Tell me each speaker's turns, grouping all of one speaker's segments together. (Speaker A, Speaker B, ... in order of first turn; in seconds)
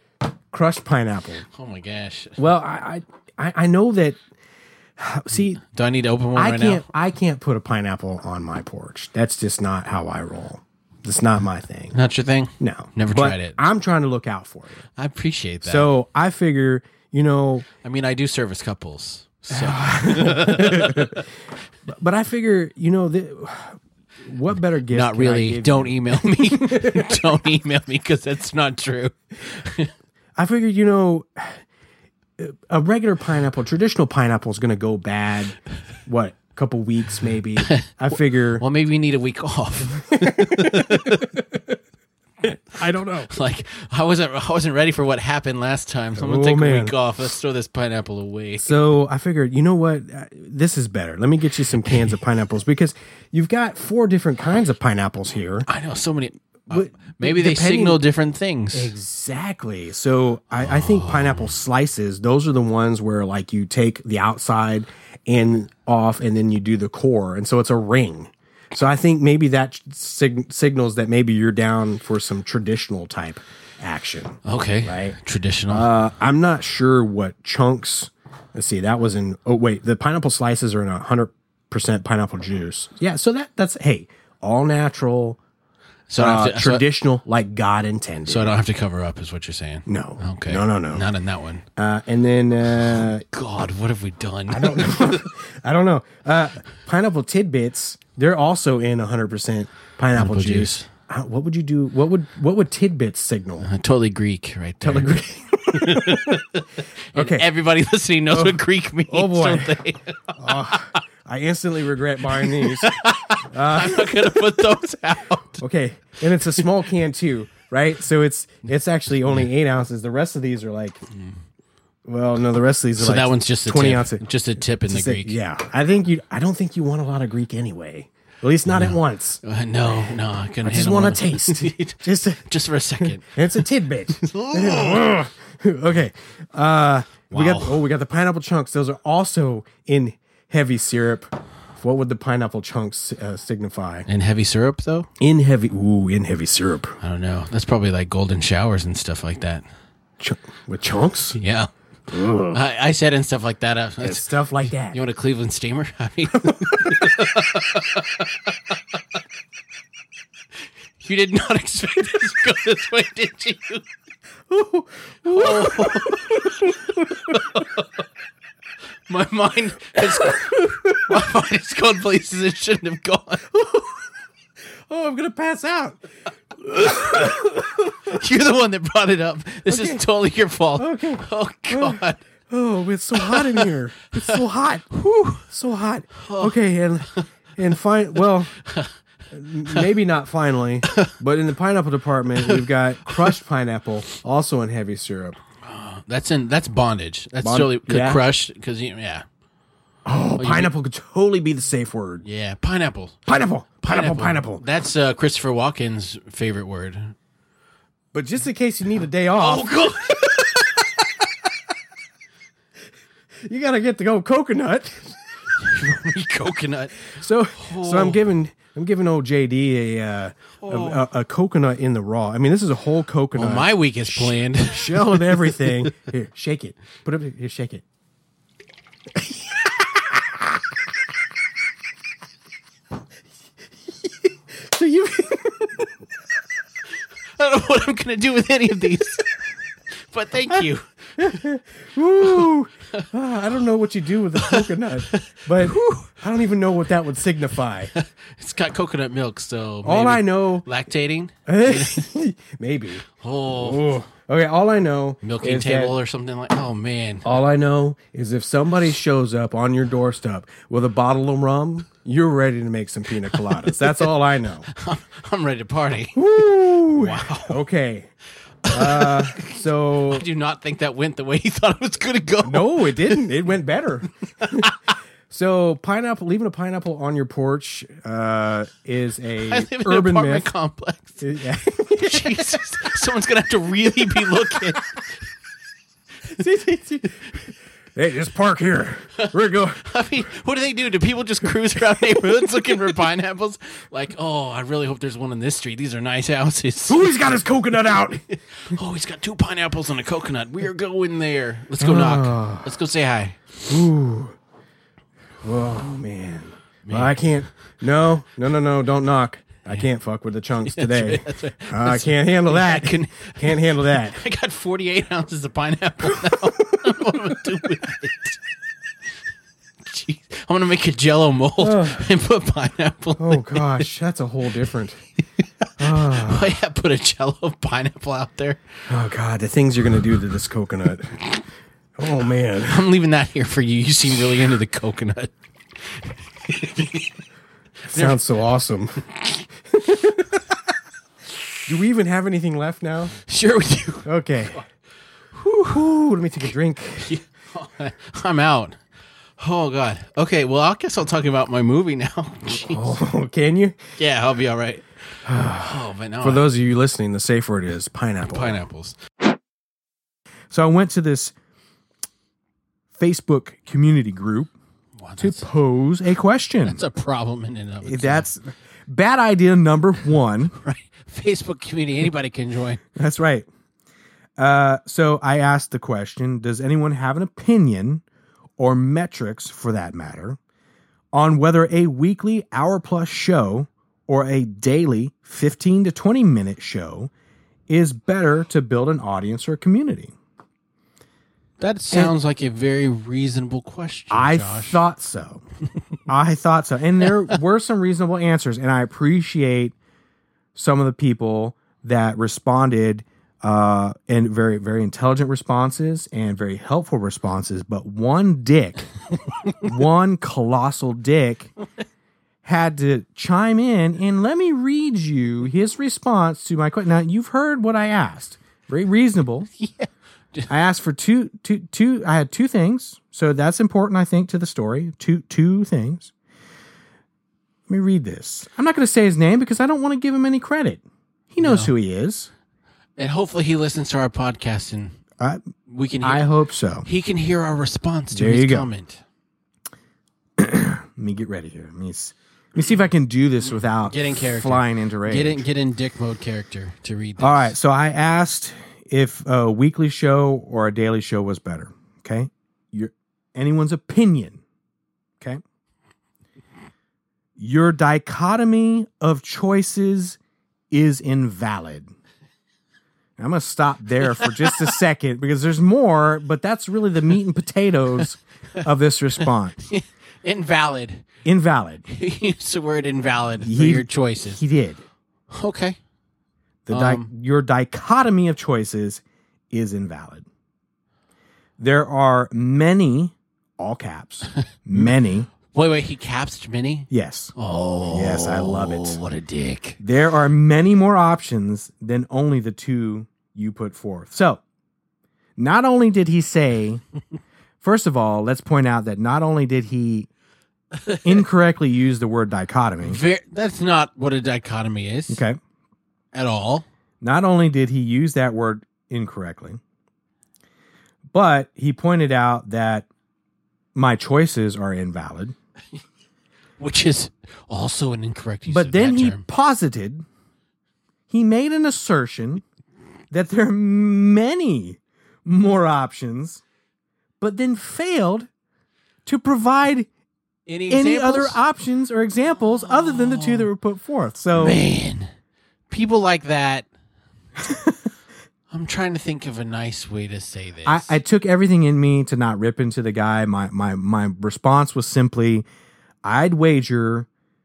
Speaker A: 0.5-1.4, 2.4-4.2, 5.0-5.6, 6.3-11.9, 12.6-14.8, 15.6-17.7, 19.5-21.2, 21.9-27.1, 30.4-31.6, 32.4-35.5, 36.1-38.6, 40.1-41.6, 42.5-43.3, 46.2-47.0, 48.6-55.7, 56.7-58.0, 58.7-75.2, 75.7-85.4, 86.2-88.5, 89.9-91.0, 91.8-93.2, 94.5-103.7, 104.8-106.5, 107.1-107.5, 108.3-109.8, 110.3-112.9, 113.5-114.5, 115.6-121.0, 122.1-124.2, 124.9-129.4, 130.6-132.5, 133.0-144.1, 145.2-147.0, 150.2-151.4, 152.1-152.6, 154.0-155.0, 156.6-156.9, 164.5-167.4, 170.6-171.1, 173.6-173.9, 174.9-176.0, 176.7-178.1, 179.7-180.0, 180.8-188.5, 189.3-195.4, 197.4-198.2, 200.1-202.2, 203.3-204.6, 208.1-210.9, 213.4-215.2, 217.1-227.8, 234.6-235.9, 241.2-247.9, 249.8-250.6, 251.4-255.9, 257.2-264.7, 266.1-268.1, 268.7-270.2, 272.4-274.7, 275.3-280.5, 281.2-282.6, 284.1-284.6, 286.3-287.3, 287.9-289.9, 296.9-298.2, 301.8-302.7, 303.7-304.4, 305.4-314.2, 321.6-322.1, 323.2-325.0, 325.8-326.5, 328.9-331.3, 332.0-332.9, 337.9-339.1, 339.7-340.4, 341.7-343.2, 344.1-344.6, 345.4-347.2, 352.5-353.8, 355.2-358.6, 360.5-361.3, 363.0-364.5, 365.2-366.8, 367.8-370.6, 372.9-373.4, 374.4-378.0, 378.6-380.4, 381.1-387.1, 387.7-390.1, 394.1-395.4, 396.1-399.7, 400.6-408.9, 409.6-411.5, 412.4-419.5, 420.5-426.1, 427.7-432.3, 436.0-436.9, 438.1-438.7, 440.4-445.4, 447.2-454.4, 457.4-460.2, 460.7-461.9, 463.2-469.6, 471.2-471.9, 473.4-474.8, 476.7-480.3, 481.6-485.3, 486.9-487.4, 487.9-489.0, 489.8-494.4, 495.4-496.8, 497.6-500.1, 501.0-503.0, 505.1-505.4, 507.0-509.6, 511.1-512.9, 513.7-515.4, 518.5-520.0, 521.1-522.4, 523.1-526.4, 527.2-528.3, 529.1-529.9, 530.7-534.6, 540.7-545.5, 546.0-547.1
Speaker B: 1.5-2.4, 5.6-6.9, 11.9-13.7, 14.9-15.9, 17.8-21.2, 24.9-29.9, 37.6-37.9, 38.6-41.4, 43.3-48.8, 55.7-58.9, 60.6-61.5, 74.5-75.9, 86.1-86.9, 88.3-91.6, 92.7-95.3, 100.1-100.9, 103.6-110.8, 112.3-115.6, 123.0-125.4, 128.7-133.3, 134.2-135.1, 137.3-137.8, 144.1-145.1, 147.0-149.7, 151.4-151.7, 152.5-158.7, 161.0-163.9, 165.3-166.7, 167.3-167.8, 169.1-173.5, 176.9-177.4, 178.1-182.2, 183.1-183.7, 184.9-185.4, 186.2-186.6, 188.6-188.9, 190.9-191.1, 192.4-193.3, 195.6-199.2, 200.4-200.7, 202.2-203.2, 203.8-207.1, 209.4-210.2, 215.6-218.2, 220.6-221.1, 223.3-225.9, 237.4-239.3, 240.1-240.9, 242.2-243.1, 244.3-246.2, 247.9-252.1, 253.1-254.0, 255.2-257.3, 263.3-264.0, 264.7-267.6, 268.7-269.5, 270.1-273.3, 274.4-274.7, 279.5-281.2, 281.9-285.2, 289.2-297.2, 298.3-303.5, 306.8-307.2, 310.6-318.4, 319.9-323.9, 325.8-328.6, 332.6-337.1, 337.9-338.2, 343.2-344.1, 347.0-348.8, 349.4-352.9, 354.0-354.9, 355.4-356.5, 358.3-358.9, 365.0-365.4, 366.6-368.3, 370.6-372.8, 391.6-394.8, 397.1-397.4, 419.6-420.5, 431.4-431.7, 433.0-434.9, 435.7-436.2, 436.9-439.0, 443.7-447.6, 464.2-464.5, 469.6-471.1, 471.9-474.4, 475.3-475.8, 476.7-477.1, 484.7-489.8, 500.7-501.2, 502.8-505.2, 506.1-506.7, 516.6-519.2, 530.5-531.4, 532.7-533.5, 534.4-535.1, 535.7-536.7, 538.5-541.0